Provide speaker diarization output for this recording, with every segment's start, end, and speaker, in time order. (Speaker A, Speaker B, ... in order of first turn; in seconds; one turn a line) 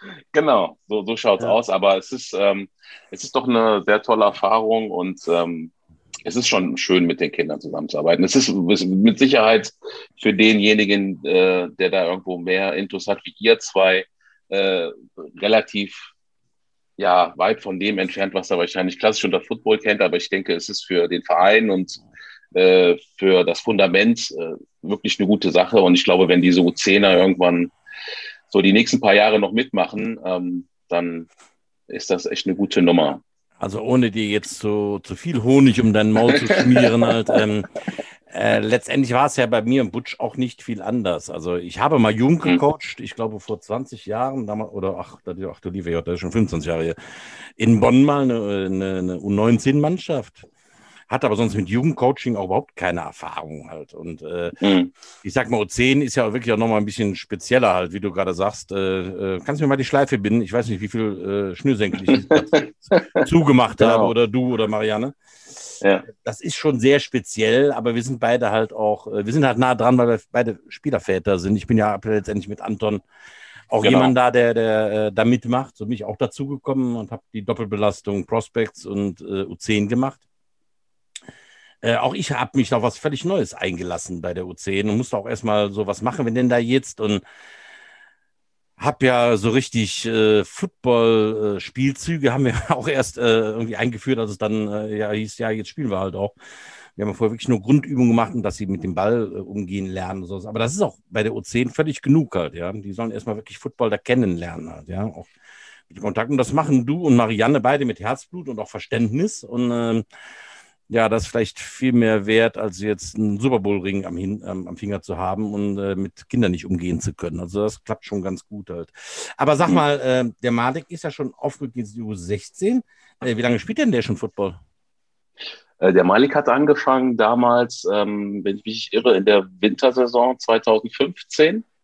Speaker A: 0.3-5.7
Speaker A: 6.2-16.1
Speaker A: 17.0-22.0
Speaker A: 22.5-27.7
Speaker A: 28.5-31.3
Speaker A: 31.9-33.2
Speaker B: 33.6-37.7
Speaker A: 36.3-37.1
Speaker B: 38.3-47.0
Speaker B: 47.6-50.5
Speaker B: 51.1-54.6
Speaker A: 54.6-54.9
Speaker B: 55.2-73.0
Speaker A: 62.1-63.2
Speaker A: 63.8-64.1
Speaker A: 65.8-66.1
Speaker B: 73.7-80.2
Speaker A: 73.8-74.1
Speaker B: 81.8-87.2
Speaker B: 88.8-96.3
Speaker B: 97.0-105.3
Speaker B: 105.9-110.0
Speaker B: 110.9-124.6
Speaker A: 125.8-131.7